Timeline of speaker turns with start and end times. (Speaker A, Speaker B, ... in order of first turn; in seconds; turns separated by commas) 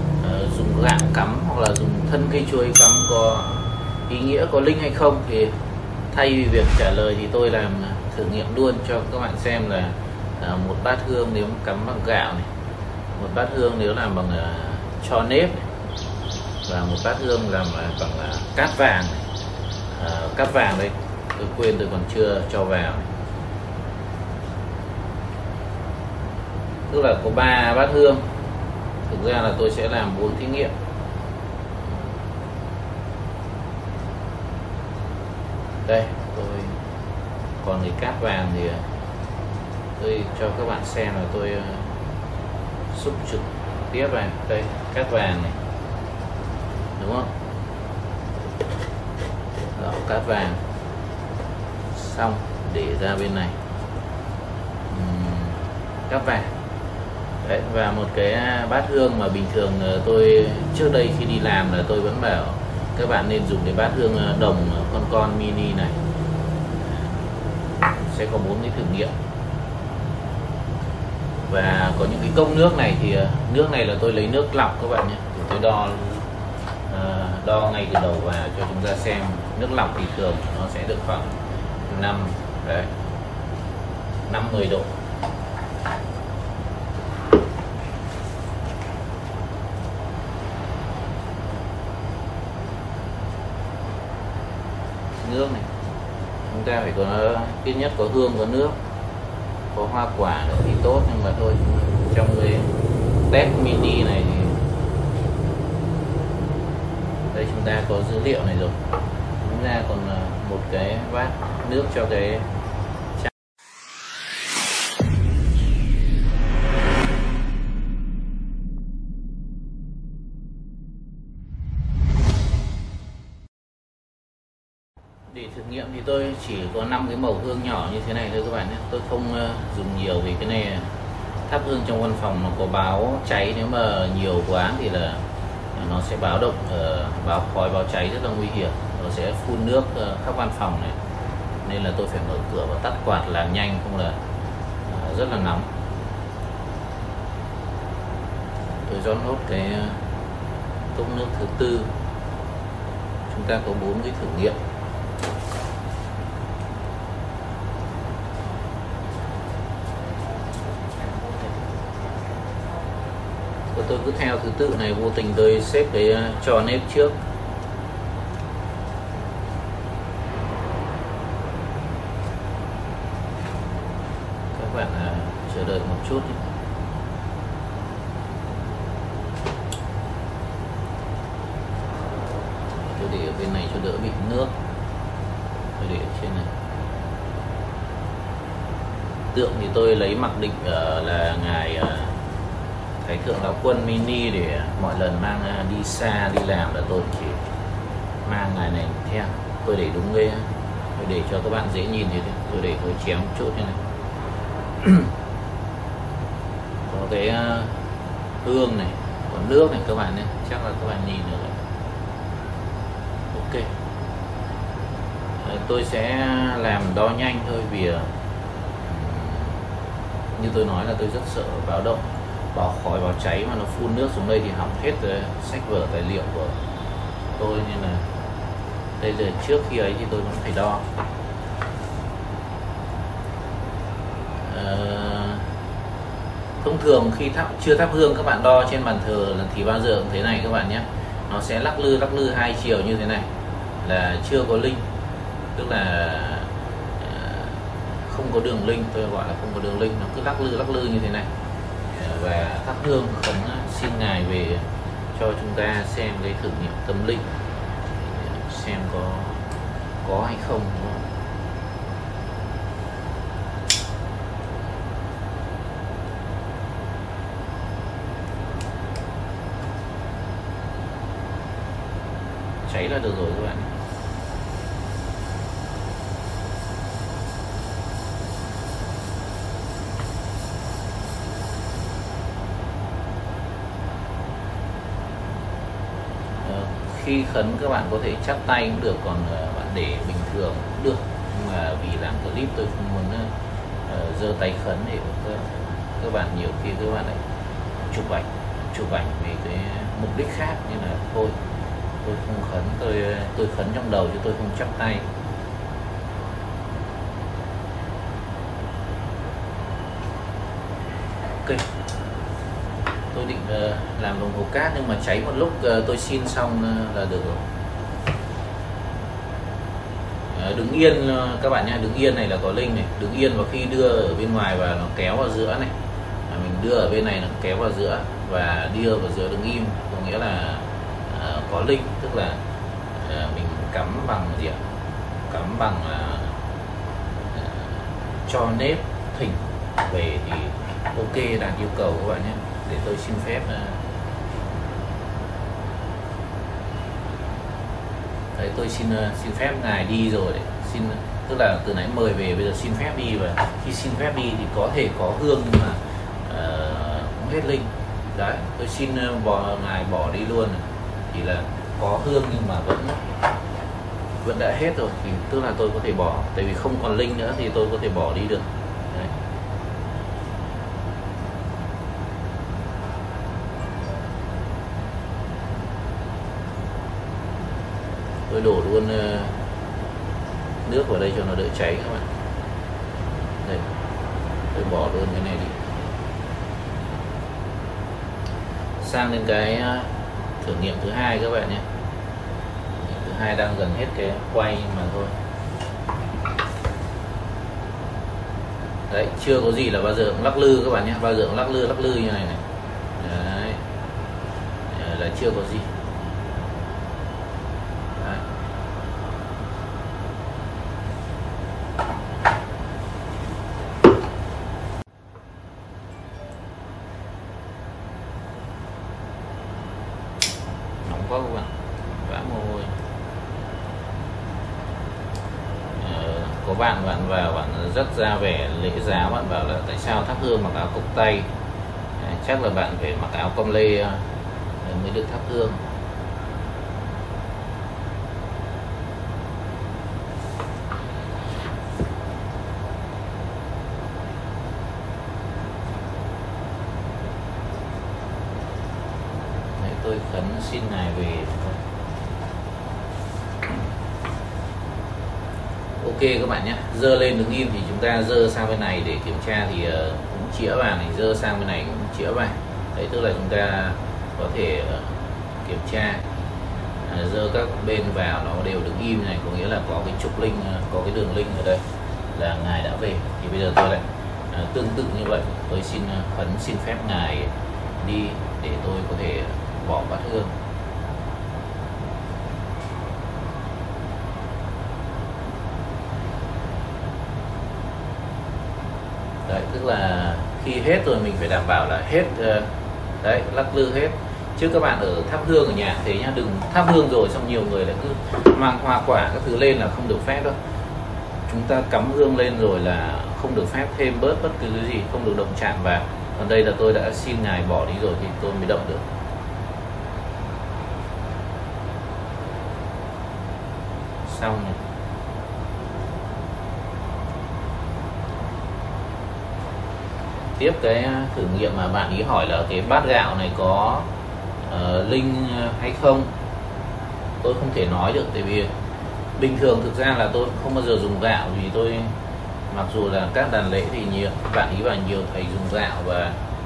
Speaker A: 0.2-5.5, Speaker A: 6.1-12.5, Speaker A: 13.1-15.7, Speaker A: 16.6-19.2, Speaker A: 19.9-23.1, Speaker A: 26.9-28.3, Speaker A: 29.1-30.7, Speaker A: 35.8-36.8, Speaker A: 37.6-38.8, Speaker A: 40.0-41.9, Speaker A: 42.9-45.6, Speaker A: 47.0-47.3, Speaker A: 49.7-50.6, Speaker A: 51.9-53.6, Speaker A: 54.9-56.5, Speaker A: 57.4-66.0, Speaker A: 68.1-69.1, Speaker A: 71.4-76.2, Speaker A: 76.9-81.3, Speaker A: 81.9-82.9, Speaker A: 84.3-84.9, Speaker A: 95.2-95.7, Speaker A: 96.5-98.8, Speaker A: 99.7-102.7, Speaker A: 103.3-104.6, Speaker A: 107.3-108.8, Speaker A: 109.4-112.5, Speaker A: 125.3-130.9, Speaker A: 131.5-135.2, Speaker A: 135.7-141.0, Speaker A: 141.6-144.2, Speaker A: 144.9-145.7, Speaker A: 148.8-150.0, Speaker A: 150.9-151.9, Speaker A: 153.3-154.5, Speaker A: 163.7-167.2, Speaker A: 174.5-176.4, Speaker A: 182.8-184.5, Speaker A: 185.8-186.5, Speaker A: 189.3-192.2, Speaker A: 193.0-197.4, Speaker A: 198.2-203.8, Speaker A: 204.8-205.1, Speaker A: 206.9-207.8, Speaker A: 208.4-211.6, Speaker A: 213.3-213.7, Speaker A: 215.4-218.1, Speaker A: 218.8-219.6, Speaker A: 220.3-226.6, Speaker A: 227.3-228.1, Speaker A: 229.0-230.8, Speaker A: 234.4-235.5, Speaker A: 236.6-243.3, Speaker A: 243.8-244.8, Speaker A: 245.6-251.3, Speaker A: 251.9-257.3, Speaker A: 257.9-259.4, Speaker A: 260.0-261.0, Speaker A: 272.6-273.7, Speaker A: 286.4-293.3, Speaker A: 293.9-297.2, Speaker A: 297.9-301.4, Speaker A: 302.0-305.1, Speaker A: 313.1-317.4, Speaker A: 320.3-325.7, Speaker A: 326.3-332.4, Speaker A: 332.9-334.6, Speaker A: 335.3-336.4, Speaker A: 337.3-343.8, Speaker A: 348.3-363.0, Speaker A: 364.2-369.1, Speaker A: 378.3-379.4, Speaker A: 380.6-382.1, Speaker A: 384.5-385.5, Speaker A: 388.8-391.6, Speaker A: 392.8-395.1, Speaker A: 398.9-402.4, Speaker A: 403.0-403.6, Speaker A: 404.7-405.7, Speaker A: 408.0-408.2, Speaker A: 420.8-422.7, Speaker A: 425.7-431.3, Speaker A: 432.0-434.0, Speaker A: 434.6-435.6, Speaker A: 449.6-451.6, Speaker A: 455.8-466.0, Speaker A: 466.8-471.6, Speaker A: 472.1-480.3, Speaker A: 489.3-500.4, Speaker A: 501.3-508.8, Speaker A: 514.0-514.6, Speaker A: 520.4-523.9, Speaker A: 524.4-526.1, Speaker A: 527.2-528.5, Speaker A: 529.2-531.9, Speaker A: 532.5-536.2